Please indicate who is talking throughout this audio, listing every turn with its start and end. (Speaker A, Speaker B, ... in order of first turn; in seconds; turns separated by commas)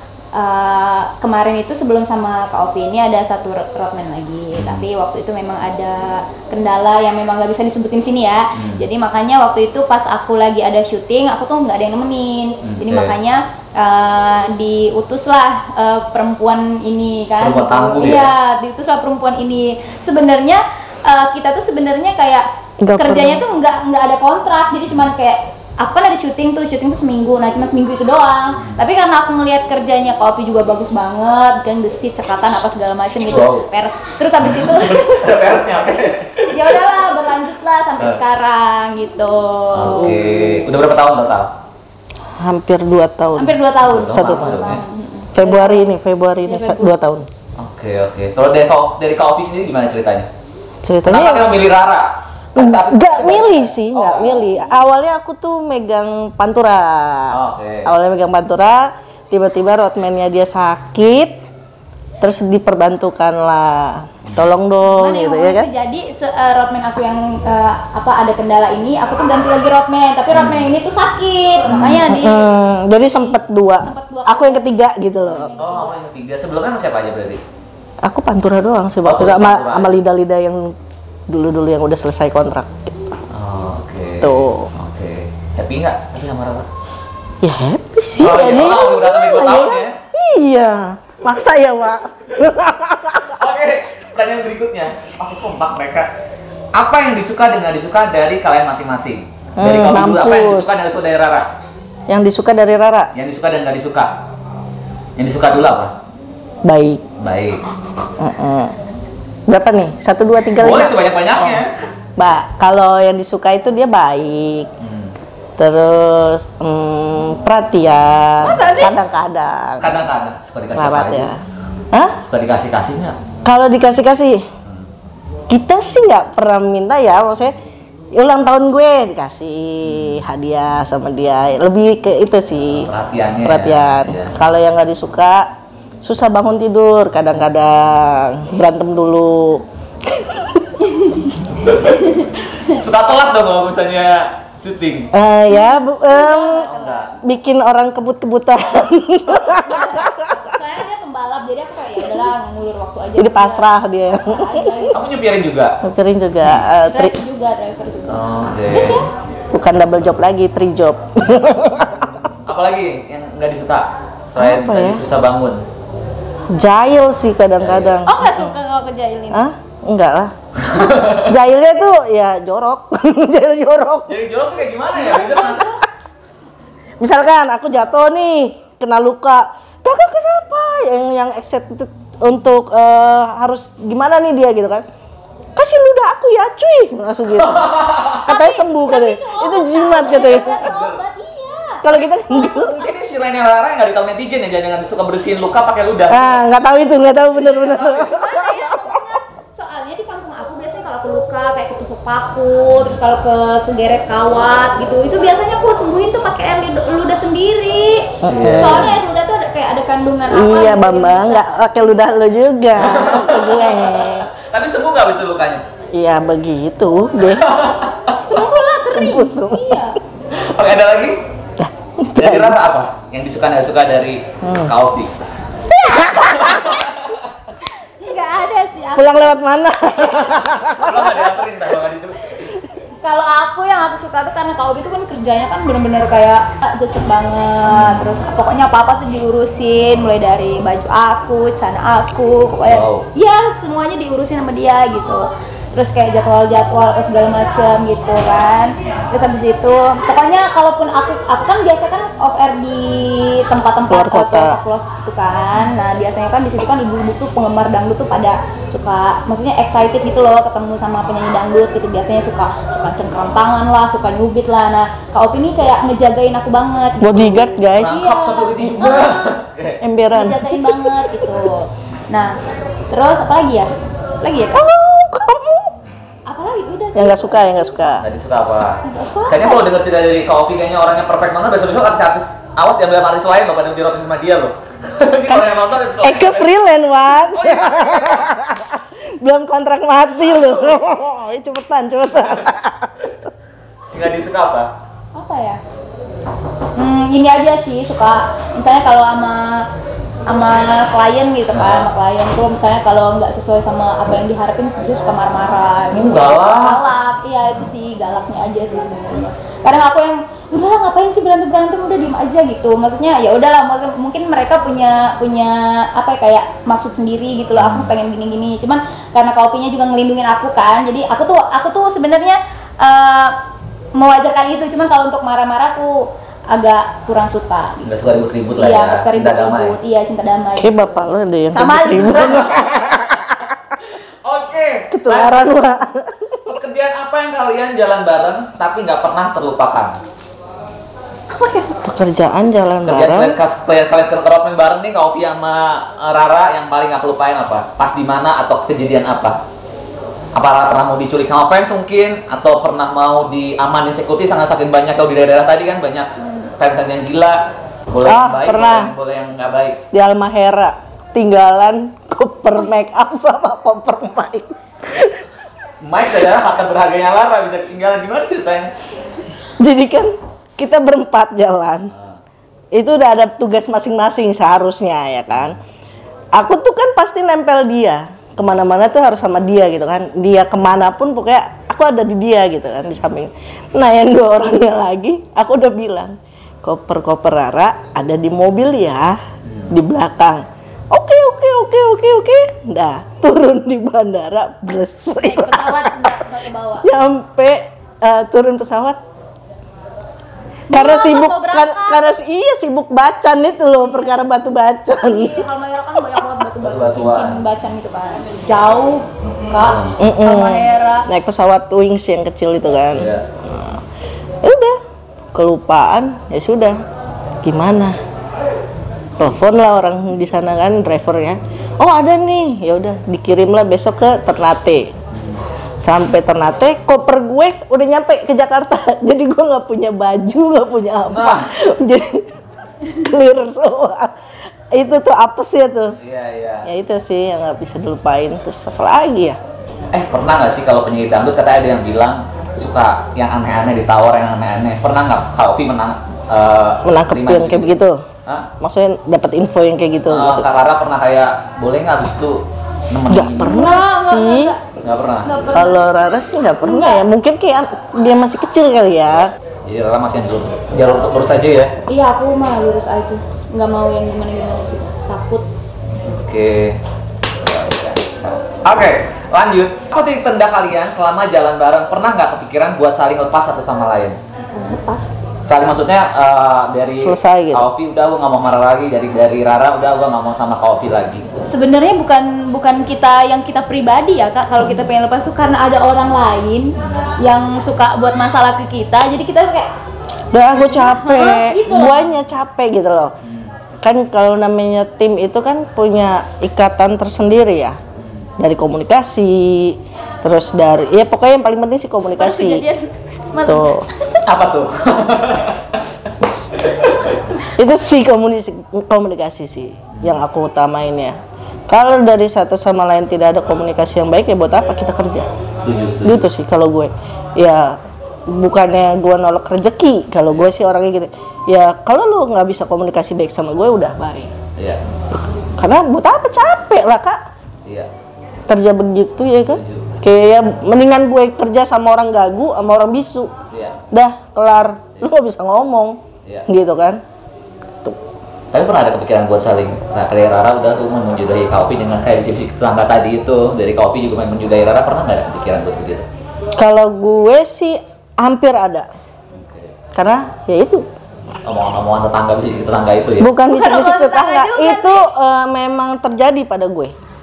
Speaker A: 0.3-35.3, Speaker B: 4.5-4.8, Speaker B: 8.5-8.8, Speaker B: 12.6-13.1, Speaker B: 17.4-18.3, Speaker C: 22.8-23.4, Speaker B: 33.2-33.7, Speaker B: 34.4-36.8, Speaker A: 36.5-40.1, Speaker B: 39.7-41.5, Speaker C: 40.0-40.6, Speaker C: 42.4-44.6, Speaker A: 43.3-45.9, Speaker B: 43.8-44.8, Speaker C: 45.3-47.2, Speaker A: 46.4-47.0, Speaker B: 47.6-50.3, Speaker C: 50.8-51.5, Speaker B: 51.1-54.4, Speaker C: 52.5-61.4, Speaker A: 54.2-54.8, Speaker B: 57.3-57.9, Speaker C: 62.2-65.7, Speaker B: 64.2-64.5, Speaker A: 64.8-76.0, Speaker B: 70.3-70.7, Speaker B: 71.6-72.1, Speaker C: 72.0-75.5, Speaker B: 75.6-77.4, Speaker C: 78.0-80.7, Speaker B: 79.0-80.0, Speaker C: 81.3-83.1, Speaker B: 83.3-86.7, Speaker C: 84.2-84.7, Speaker C: 87.4-93.5, Speaker B: 88.2-90.0, Speaker B: 93.3-96.1, Speaker B: 96.7-101.5, Speaker C: 99.6-100.7, Speaker C: 102.1-103.1, Speaker B: 103.1-104.2, Speaker B: 105.2-105.9, Speaker C: 106.7-107.0, Speaker B: 107.2-107.6, Speaker C: 108.2-108.7, Speaker C: 109.5-111.6, Speaker B: 110.6-111.7, Speaker C: 112.2-114.7, Speaker B: 114.8-115.2, Speaker C: 115.6-120.0, Speaker A: 118.4-119.0, Speaker B: 119.8-121.3, Speaker C: 120.7-121.4, Speaker C: 121.9-122.2, Speaker B: 122.2-123.2, Speaker C: 123.4-124.4, Speaker C: 125.5-127.6, Speaker C: 128.1-132.9, Speaker B: 129.8-130.2, Speaker B: 132.8-134.3, Speaker C: 133.4-140.9, Speaker A: 141.0-141.3, Speaker B: 141.6-145.1, Speaker A: 141.9-142.3, Speaker C: 145.1-146.7, Speaker A: 145.5-147.2, Speaker B: 146.7-147.1, Speaker C: 147.2-150.5, Speaker A: 149.5-155.0, Speaker C: 153.2-154.9, Speaker B: 154.9-155.8, Speaker C: 155.8-157.2, Speaker A: 156.9-159.1, Speaker B: 158.1-159.0, Speaker C: 159.5-162.3, Speaker B: 162.3-165.7, Speaker C: 164.3-165.1, Speaker C: 166.5-168.6, Speaker B: 167.6-168.0, Speaker A: 168.0-169.4, Speaker C: 169.3-170.3, Speaker B: 170.6-171.4, Speaker C: 171.1-174.2, Speaker B: 174.1-175.7, Speaker A: 174.9-175.9, Speaker C: 177.0-184.8, Speaker C: 185.6-190.7, Speaker B: 187.3-188.3, Speaker A: 188.3-192.6, Speaker B: 190.1-191.0, Speaker C: 191.8-192.8, Speaker B: 192.3-196.5, Speaker C: 196.1-198.9, Speaker B: 197.2-198.2, Speaker A: 197.9-211.6, Speaker C: 208.2-209.0, Speaker B: 208.2-209.0, Speaker C: 210.3-214.3, Speaker B: 212.7-215.6, Speaker C: 215.9-217.6, Speaker B: 217.3-218.1, Speaker A: 218.3-220.0, Speaker C: 218.3-219.8, Speaker B: 220.3-221.2, Speaker C: 221.6-222.6, Speaker B: 222.2-225.1, Speaker C: 224.4-224.7, Speaker C: 225.7-226.7, Speaker B: 226.1-227.2, Speaker A: 228.0-230.4, Speaker C: 228.9-231.4, Speaker B: 230.6-232.5, Speaker A: 233.0-269.4, Speaker B: 237.7-238.1, Speaker B: 242.7-243.1, Speaker C: 253.9-254.6, Speaker C: 267.0-268.0, Speaker B: 267.7-269.8, Speaker C: 269.8-271.1, Speaker A: 270.1-272.4, Speaker A: 272.9-273.7, Speaker A: 274.2-274.6, Speaker C: 274.5-275.7, Speaker A: 276.2-277.8, Speaker C: 276.9-278.1, Speaker B: 278.0-286.6, Speaker A: 278.8-279.7, Speaker C: 286.0-293.1, Speaker B: 287.2-288.3, Speaker B: 290.3-290.8, Speaker B: 293.9-294.7, Speaker A: 295.1-295.6, Speaker A: 296.8-299.6, Speaker A: 300.3-323.3, Speaker B: 301.5-301.9, Speaker B: 305.9-306.8, Speaker B: 317.5-317.9, Speaker A: 323.9-326.0, Speaker A: 326.5-327.9, Speaker B: 327.8-329.8, Speaker A: 328.5-330.9, Speaker C: 330.6-333.2, Speaker A: 331.5-332.5, Speaker B: 332.0-333.1, Speaker B: 334.2-335.7, Speaker C: 334.9-336.5, Speaker B: 336.4-340.0, Speaker A: 341.3-341.7, Speaker C: 341.8-343.4, Speaker B: 342.8-349.4, Speaker B: 350.3-359.8, Speaker C: 358.0-358.9, Speaker C: 359.9-365.2, Speaker B: 365.8-368.7, Speaker C: 369.6-371.9, Speaker B: 371.9-372.2, Speaker C: 372.7-375.6, Speaker C: 376.3-396.3, Speaker B: 389.4-389.8, Speaker A: 395.2-396.9, Speaker C: 396.8-399.0, Speaker A: 400.7-402.1, Speaker C: 400.7-406.0, Speaker A: 403.9-404.1, Speaker A: 404.9-411.1, Speaker B: 406.6-407.4, Speaker B: 409.6-409.9, Speaker C: 410.0-413.8, Speaker B: 412.9-413.2, Speaker C: 414.4-414.8, Speaker C: 415.3-416.8, Speaker C: 417.4-418.0, Speaker C: 419.2-424.9, Speaker B: 425.1-425.4, Speaker C: 425.8-432.3, Speaker B: 431.1-431.5, Speaker C: 432.8-434.1, Speaker C: 434.7-436.0, Speaker B: 435.9-436.7, Speaker C: 436.6-439.4, Speaker B: 439.9-448.5, Speaker C: 446.8-448.0, Speaker C: 448.6-450.5, Speaker B: 450.1-453.6, Speaker C: 453.1-454.5, Speaker A: 453.4-454.6, Speaker B: 454.8-455.3, Speaker A: 455.2-455.8, Speaker C: 455.5-459.3, Speaker A: 456.6-457.0, Speaker B: 459.6-461.7, Speaker A: 461.9-465.4, Speaker B: 466.0-466.8, Speaker B: 467.4-474.2, Speaker A: 474.5-475.1, Speaker B: 475.4-481.2, Speaker C: 476.9-477.7, Speaker A: 481.4-489.7, Speaker B: 486.8-487.1, Speaker C: 490.3-493.1, Speaker A: 490.6-492.1, Speaker B: 493.2-493.6, Speaker C: 493.8-497.8, Speaker B: 497.9-498.3, Speaker C: 498.4-502.6, Speaker A: 502.1-504.2, Speaker C: 503.4-503.8, Speaker B: 504.2-505.8, Speaker B: 506.5-507.2, Speaker C: 507.5-511.1, Speaker B: 509.9-510.2, Speaker C: 511.7-515.3, Speaker B: 515.6-516.3, Speaker C: 516.0-524.3, Speaker B: 524.5-524.8, Speaker C: 525.6-527.2, Speaker B: 527.6-527.9, Speaker C: 528.5-533.3, Speaker B: 529.4-529.9, Speaker B: 533.5-533.8, Speaker C: 533.9-537.0, Speaker B: 538.5-546.0, Speaker C: 546.6-548.9, Speaker B: 549.3-549.7, Speaker C: 549.9-550.8, Speaker B: 551.4-553.3, Speaker C: 553.2-556.9, Speaker A: 553.5-555.1